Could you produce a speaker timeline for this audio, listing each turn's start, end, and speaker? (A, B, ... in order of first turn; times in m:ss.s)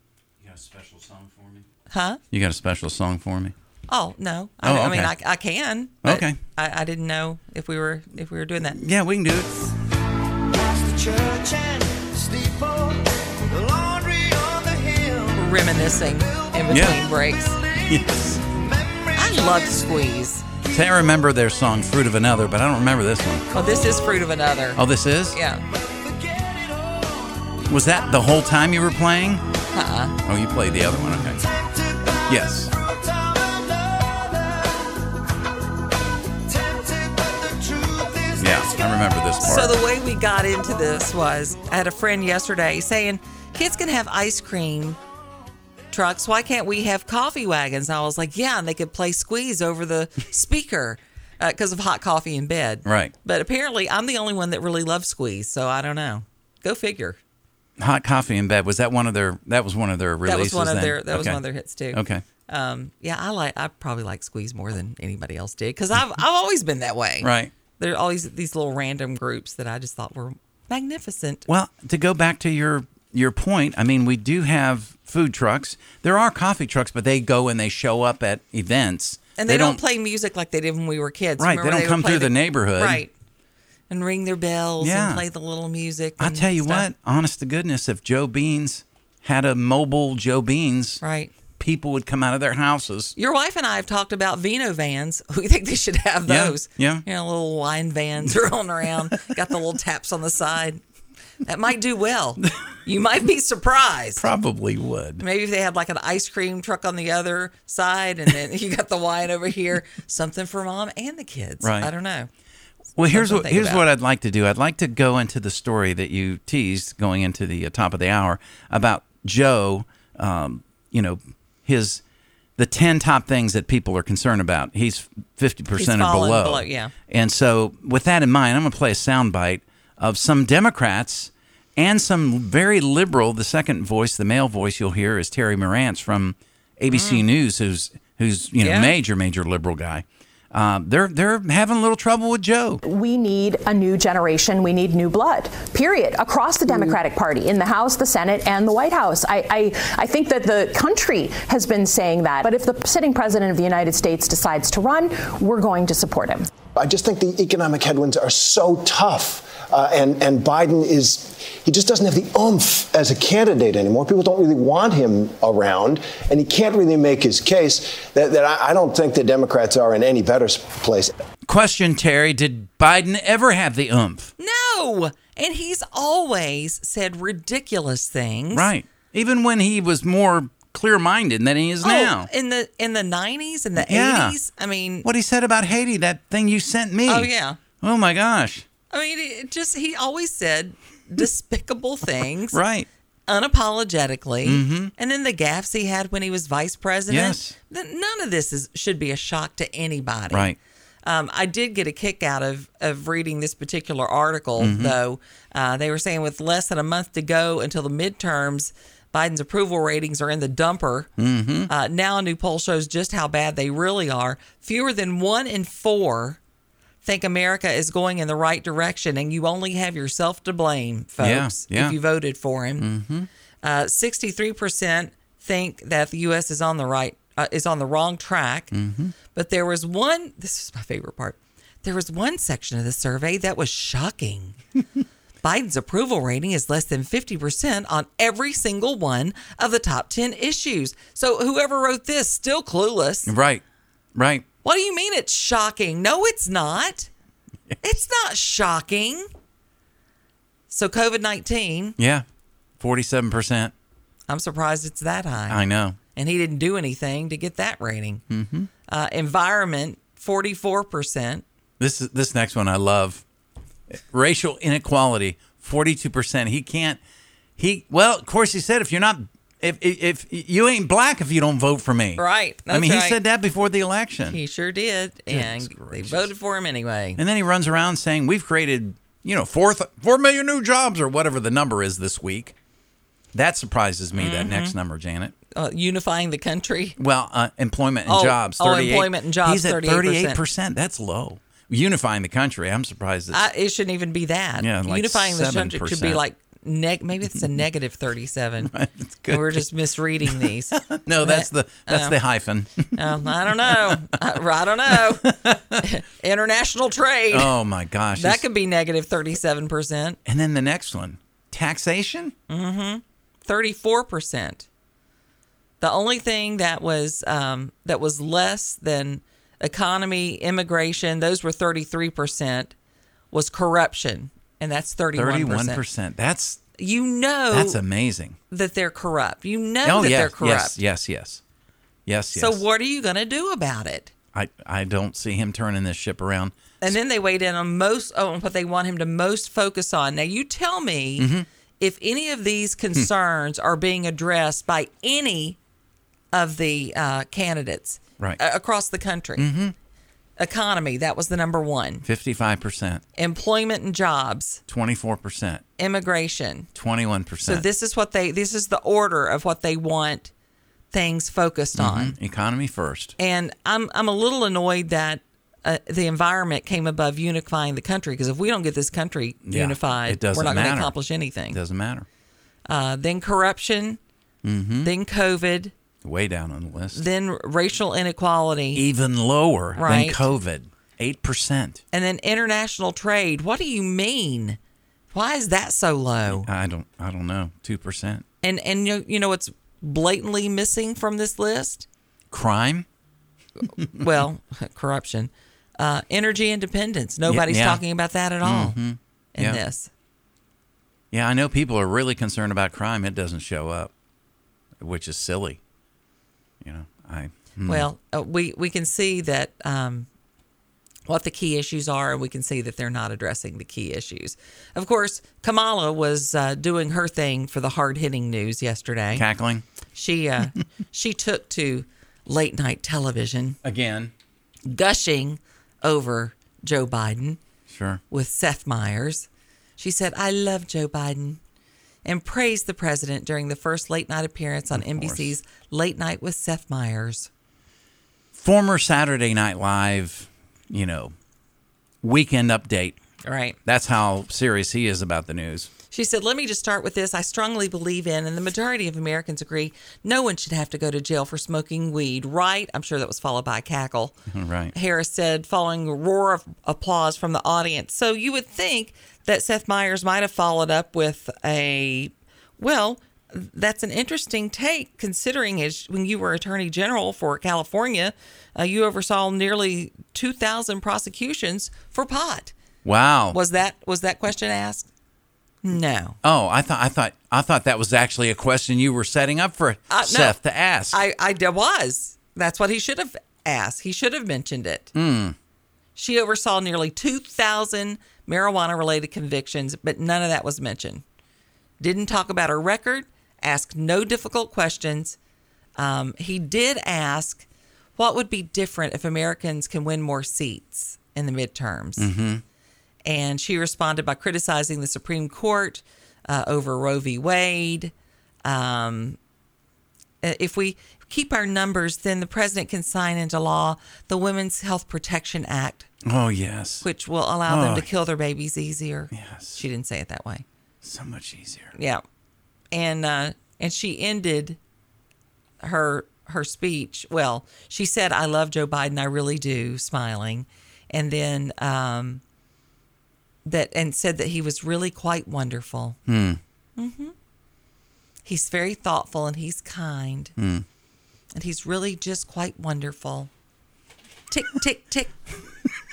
0:00.4-0:01.7 A
0:01.9-0:02.2 B
0:02.3-0:03.5 A
0:03.9-0:08.8 B
0:04.6-0:05.1 A
0:06.0-0:06.4 A
0:08.7-0:09.7 A
0:10.8-0:12.9 C
0:13.6-0:15.2 C
0:15.3-0:17.6 B
0:16.7-0:17.1 A
0:17.8-0:18.5 A
0:19.1-0:20.4 B
0:20.7-0:23.5 A
0:23.5-0:24.8 B
0:24.8-0:25.4 A
0:25.3-0:25.6 B
0:27.7-0:29.4 A
0:29.7-0:30.2 B
0:30.2-0:31.5 A
0:32.3-0:32.8 A
0:32.9-0:34.3 C
0:36.5-0:38.4 C
0:38.4-0:39.8 A
0:39.4-0:45.0 B
0:45.9-0:57.2 B
0:52.8-0:53.1 A
0:57.8-1:02.2 A
1:00.2-1:11.5 B
1:07.2-1:07.5 A
1:11.5-1:19.8 A
1:19.4-1:23.1 B
1:21.4-1:23.0 A
1:23.9-1:26.9 B
1:24.8-1:25.2 A
1:26.2-1:31.0 A
1:31.0-1:31.3 B
1:31.6-1:33.1 A
1:33.2-1:40.8 B
1:36.3-1:37.0 A
1:41.4-1:44.3 B
1:44.2-1:45.2 A
1:45.2-1:52.3 B
1:51.6-1:51.9 A
1:53.0-2:02.0 A
1:53.1-1:53.9 B
2:02.6-2:22.8 A
2:05.8-2:06.9 B
2:16.9-2:17.2 B
2:18.6-2:18.9 B
2:22.8-2:36.5 D
2:36.7-2:51.1 E
2:51.4-2:54.3 A
2:54.4-2:58.7 B
2:58.5-3:02.3 A
3:01.8-3:05.1 B
3:03.8-3:04.4 A
3:05.0-3:07.3 A
3:07.1-3:07.6 B
3:07.8-3:08.7 A
3:08.9-3:12.6 B
3:12.5-3:12.9 A
3:13.3-3:31.1 B
3:14.4-3:14.9 A
3:17.1-3:17.6 A
3:20.3-3:20.6 A
3:24.6-3:25.0 A
3:31.2-3:31.7 A
3:31.7-3:36.4 B
3:37.0-3:42.9 B
3:41.2-3:42.0 A
3:42.8-3:43.3 A
3:43.6-3:48.7 B
3:48.7-3:49.1 A
3:49.3-3:54.6 B
3:55.4-4:03.3 B
4:03.3-4:03.6 A
4:04.1-4:04.5 A
4:04.6-4:07.1 B
4:07.8-4:09.3 B
4:10.7-4:12.0 B
4:12.0-4:12.2 A
4:12.8-4:13.7 A
4:14.3-4:15.6 B
4:15.5-4:16.0 A
4:16.2-4:18.2 B
4:18.3-4:18.7 A
4:18.9-4:21.4 B
4:21.8-4:23.2 A
4:23.9-4:27.0 A
4:27.6-4:34.4 A
4:32.2-4:33.2 B
4:34.3-4:37.2 B
4:35.3-4:36.3 A
4:37.2-4:42.6 A
4:43.3-4:45.4 A
4:44.1-4:44.8 B
4:45.5-4:47.0 B
4:47.0-4:53.4 A
4:48.1-4:50.4 B
4:53.3-4:58.7 B
4:54.6-4:56.2 A
4:58.6-4:59.7 A
4:59.3-5:02.2 B
5:00.3-5:04.0 A
5:03.0-5:07.5 B
5:04.9-5:05.8 A
5:07.3-5:08.4 A
5:08.2-5:10.2 B
5:10.3-5:12.4 A
5:12.5-5:14.7 B
5:15.8-5:22.7 B
5:23.3-5:25.8 B
5:25.2-5:26.6 A
5:26.8-5:27.8 B
5:27.5-5:28.4 A
5:28.5-5:30.8 B
5:29.8-5:31.4 A
5:32.1-5:32.6 A
5:32.4-5:34.1 B
5:34.3-5:36.6 A
5:36.8-5:45.6 B
5:41.2-5:41.5 A
5:46.3-5:49.5 B
5:49.4-5:49.8 A
5:50.4-5:52.0 B
5:52.0-5:53.0 A
5:53.2-5:54.6 B
5:54.7-5:55.6 A
5:55.8-5:56.7 B
5:56.8-5:57.7 A
5:57.4-6:00.3 B
6:00.9-6:02.2 B
6:01.8-6:03.2 A
6:03.2-6:11.6 B
6:09.5-6:11.0 A
6:11.5-6:12.1 A
6:12.7-6:14.0 B
6:14.4-6:14.9 A
6:14.8-6:15.7 B
6:16.0-6:17.0 A
6:16.9-6:18.8 B
6:18.8-6:21.8 A
6:19.8-6:20.3 B
6:21.9-6:24.6 B
6:25.1-6:26.5 B
6:26.3-6:28.2 A
6:28.4-6:31.9 B
6:32.3-6:32.9 A
6:33.8-6:38.8 B
6:37.2-6:37.8 A
6:38.4-6:39.6 A
6:39.4-6:39.9 B
6:41.1-6:43.9 A
6:44.8-6:45.6 A
6:46.6-6:47.9 A
6:47.7-6:50.1 B
6:51.1-6:59.2 B
6:59.1-6:59.6 A
7:00.0-7:03.6 B
7:03.6-7:04.1 A
7:04.7-7:07.4 B
7:07.7-7:08.0 A
7:08.1-7:09.3 B
7:09.8-7:11.4 B
7:12.0-7:17.3 B
7:14.7-7:15.3 A
7:18.3-7:21.2 A
7:22.0-7:23.0 A
7:23.2-7:23.6 B
7:23.6-7:25.7 A
7:25.9-7:34.2 B
7:34.3-7:34.7 A
7:34.7-7:52.5 B
7:52.8-7:53.4 A
7:53.3-7:54.9 B
7:55.6-7:56.2 B
7:56.2-8:01.0 A
7:59.9-8:00.4 B
8:00.9-8:04.9 B
8:04.9-8:05.4 A
8:06.0-8:11.0 B
8:11.8-8:15.2 B
8:15.8-8:22.1 B
8:22.0-8:22.4 A
8:23.0-8:27.9 B
8:28.4-8:29.2 B
8:30.2-8:35.9 B
8:36.0-8:36.9 A
8:36.8-8:40.4 B
8:37.5-8:37.9 A
8:39.1-8:39.6 A
8:40.8-8:41.7 A
8:41.8-8:42.0 B
8:42.7-8:44.6 B
8:45.6-8:52.2 B
8:53.4-8:56.0 B
8:56.1-8:56.4 A
8:56.8-8:57.1 B
8:58.2-9:00.3 B
9:00.4-9:00.6 A
9:01.3-9:03.3 B
9:04.3-9:05.2 B